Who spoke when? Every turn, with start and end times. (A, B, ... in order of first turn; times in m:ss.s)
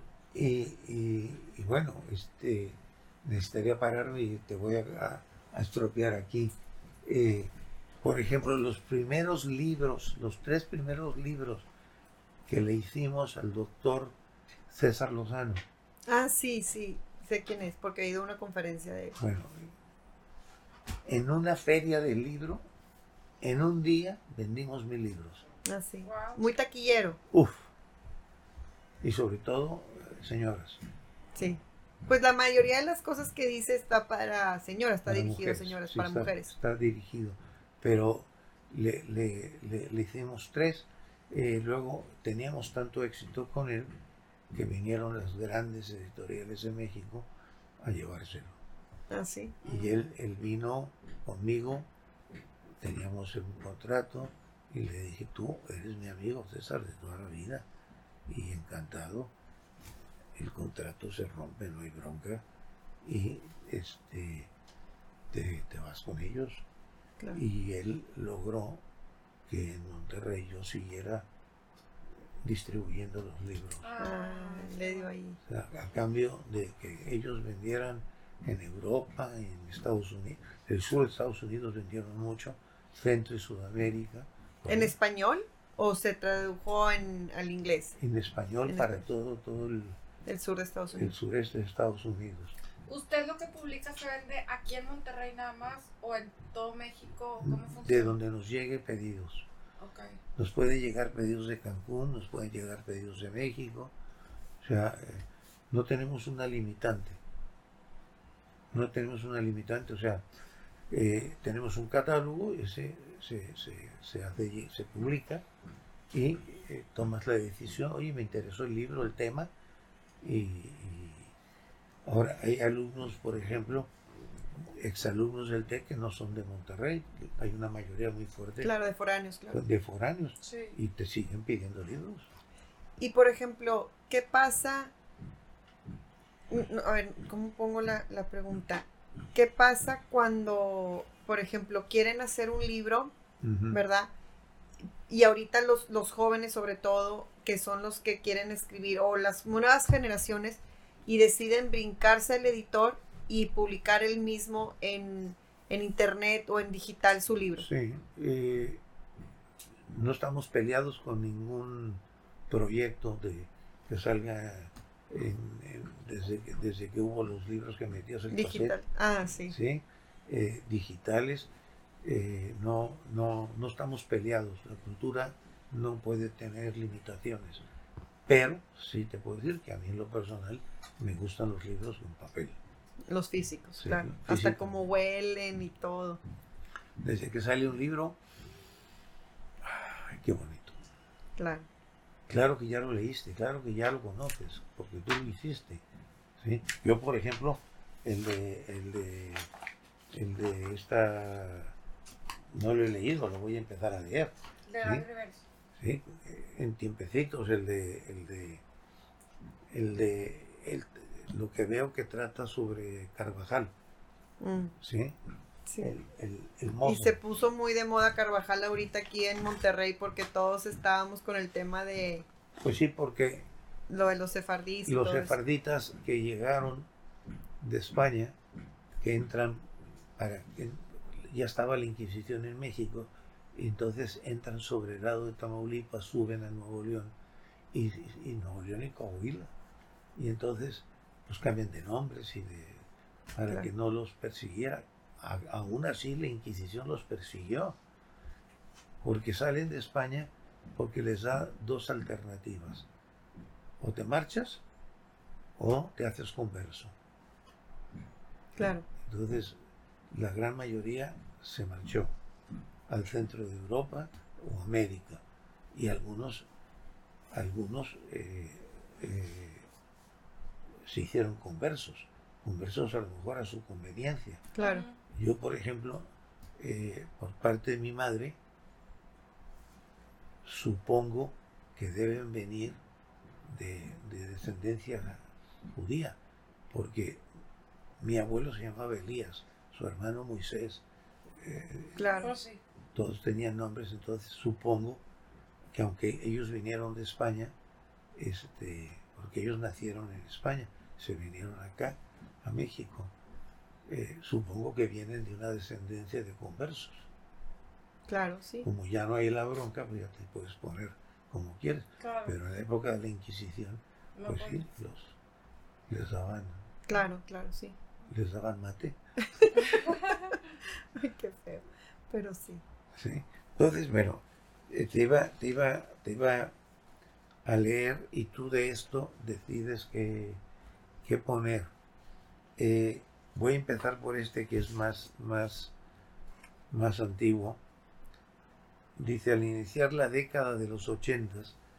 0:00.3-0:11.7 A
0:12.5-0:14.2 A
0:14.7-0:15.6 A
0:16.1-0:19.2 B
0:19.2-0:19.7 A
0:21.1-0:22.6 A
0:23.4-0:25.4 A
0:25.6-0:27.2 B
0:26.0-0:26.4 C
0:27.3-0:27.7 A
0:29.0-0:30.8 A
0:31.4-0:36.5 B
0:35.1-0:43.9 A
0:44.5-0:47.3 A
0:47.8-0:48.6 A
0:49.1-0:49.6 B
0:49.6-0:51.9 A
0:52.8-0:57.7 A
0:58.3-0:59.3 A
1:00.4-1:02.4 A
1:03.0-1:04.5 A
1:05.3-1:06.6 A
1:07.3-1:08.8 A
1:09.5-1:11.3 A
1:12.4-1:13.9 A
1:13.8-1:15.1 C
1:14.0-1:15.4 B
1:15.5-1:24.9 A
1:24.7-1:28.0 B
1:28.0-1:30.0 A
1:28.7-1:29.0 B
1:30.3-1:31.1 B
1:30.9-1:32.6 A
1:32.9-1:38.2 C
1:37.4-1:39.5 A
1:39.8-1:40.2 C
1:40.4-1:43.9 A
1:44.6-1:47.2 A
1:48.7-1:50.2 A
1:50.9-1:55.4 A
1:56.1-1:59.5 A
2:00.2-2:01.3 A
2:02.0-2:03.9 A
2:04.8-2:08.7 A
2:08.6-2:09.6 B
2:09.5-2:12.3 A
2:10.4-2:10.8 C
2:13.0-2:14.9 B
2:16.5-2:23.1 B
2:23.4-2:23.8 A
2:23.7-2:24.1 B
2:25.1-2:37.7 B
2:37.6-2:38.8 A
2:39.8-2:48.8 A
2:48.3-2:49.6 B
2:49.5-2:51.5 A
2:52.0-2:57.6 A
2:58.3-3:02.6 A
3:03.1-3:06.2 B
3:03.8-3:04.8 A
3:07.0-3:08.2 A
3:09.6-3:10.8 A
3:11.4-3:11.7 B
3:12.3-3:15.8 A
3:16.4-3:19.5 A
3:20.1-3:21.8 A
3:22.5-3:25.0 A
3:24.7-3:25.4 C
3:25.8-3:28.6 A
3:29.7-3:33.7 A
3:34.4-3:34.8 B
3:34.8-3:35.2 A
3:35.7-3:35.9 B
3:35.8-3:37.2 A
3:36.8-3:42.3 B
3:42.6-3:43.5 A
3:43.9-3:45.4 B
3:44.9-3:46.9 A
3:47.6-3:48.4 A
3:49.0-3:57.1 A
3:57.7-3:59.5 A
4:00.2-4:07.8 A
4:09.0-4:12.9 A
4:13.8-4:14.6 A
4:15.6-4:17.0 A
4:18.6-4:18.9 B
4:19.0-4:19.6 A
4:20.1-4:22.1 A
4:22.9-4:26.5 A
4:27.3-4:29.7 A
4:30.8-4:34.5 A
4:34.6-4:34.9 B
4:34.6-4:35.0 C
4:35.1-4:36.1 A
4:36.6-4:38.4 A
4:40.4-4:42.8 A
4:43.4-4:46.2 A
4:46.7-4:47.2 A
4:48.0-4:50.8 A
4:51.4-4:52.1 A
4:52.0-4:52.3 B
4:52.2-4:52.6 C
4:53.0-4:55.0 A
4:55.7-4:57.6 A
4:58.2-5:03.1 A
5:03.9-5:07.1 A
5:08.1-5:08.7 B
5:08.6-5:15.2 A
5:12.0-5:12.4 C
5:14.2-5:14.6 C
5:15.9-5:16.6 A
5:16.9-5:17.8 B
5:18.1-5:19.0 A
5:19.6-5:20.0 C
5:20.9-5:22.6 B
5:23.0-5:26.5 A
5:27.4-5:30.4 A
5:31.0-5:31.7 A
5:32.6-5:35.7 A
5:36.7-5:37.6 A
5:39.0-5:41.6 A